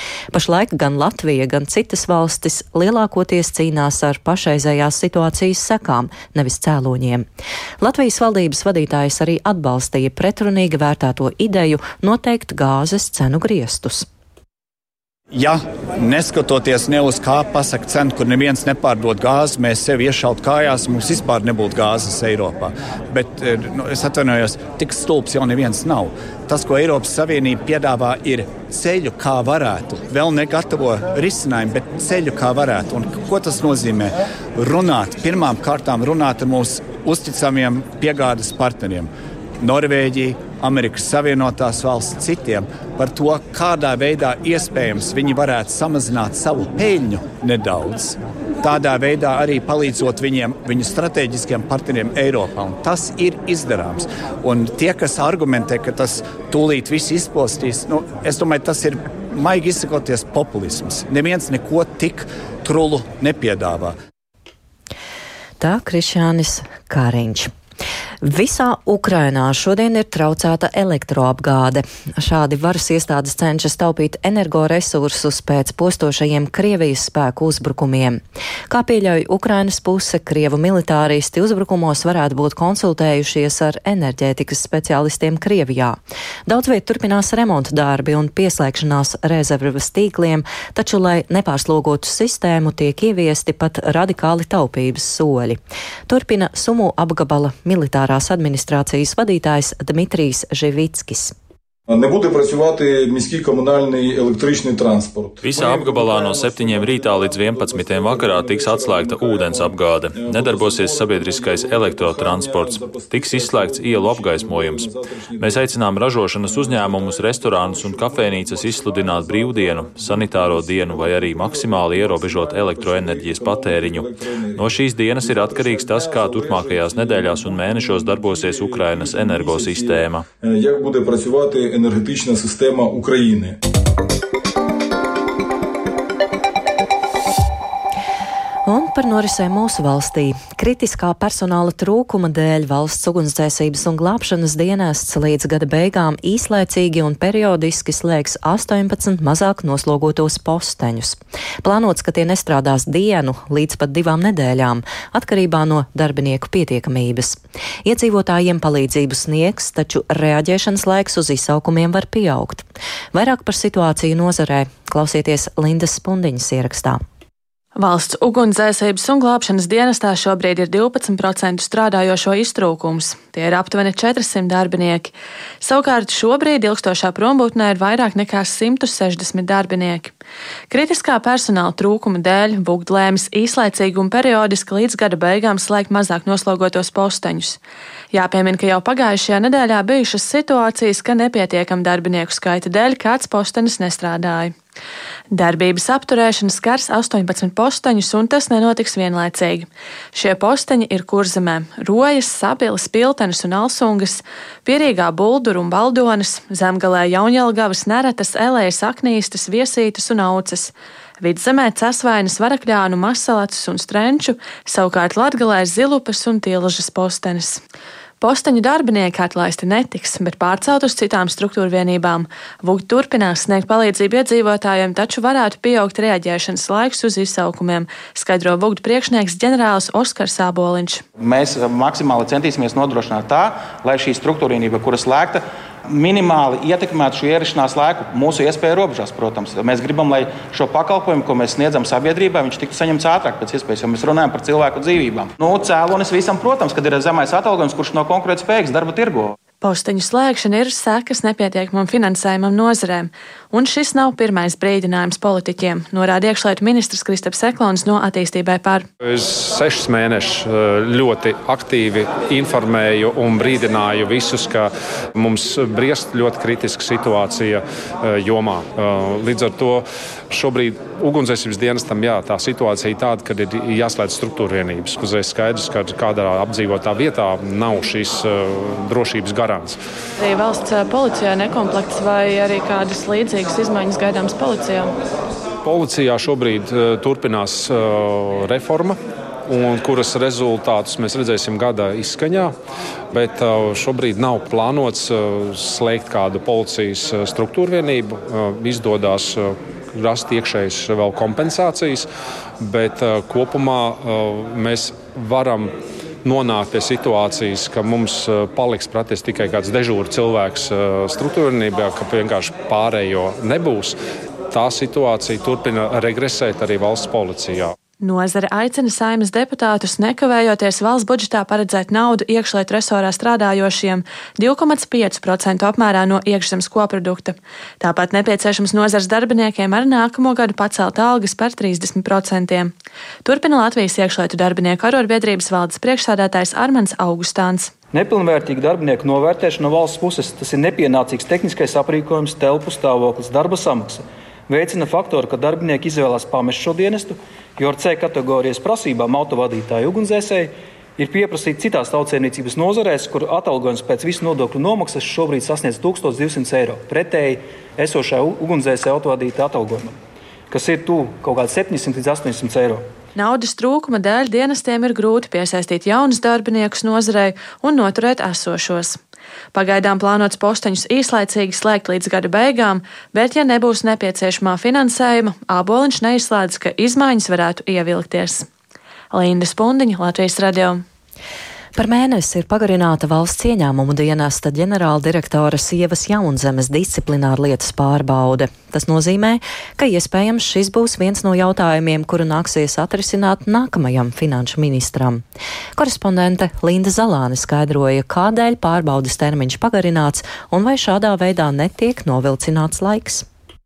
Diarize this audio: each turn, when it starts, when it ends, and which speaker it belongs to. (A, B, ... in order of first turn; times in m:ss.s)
0:00.3-0:07.3 A
0:07.8-0:14.1 A
0:15.3-1:03.9 B
1:05.6-1:07.5 A
1:08.2-1:41.3 A
1:41.9-1:55.8 C
1:45.4-2:10.2 D
1:56.4-2:13.6 C
2:18.6-2:47.0 A
2:47.8-3:00.1 E
3:00.7-3:07.6 E
3:08.1-3:14.5 E
3:15.3-3:37.6 E
3:38.2-3:51.0 E
3:51.2-4:09.3 F
4:09.6-4:18.9 E
4:19.0-4:39.8 G
4:40.2-4:44.9 E
4:45.6-4:52.6 G
4:53.1-5:02.1 G
5:02.6-5:14.0 G
5:14.5-5:17.7 G
5:18.0-5:32.7 E
5:33.2-5:37.7 E
5:37.9-6:00.0 H
6:00.5-6:02.9 H
6:03.2-6:09.0 E
6:09.5-6:18.5 E
6:19.1-6:20.8 E
6:21.7-6:35.2 A
6:35.8-6:43.2 A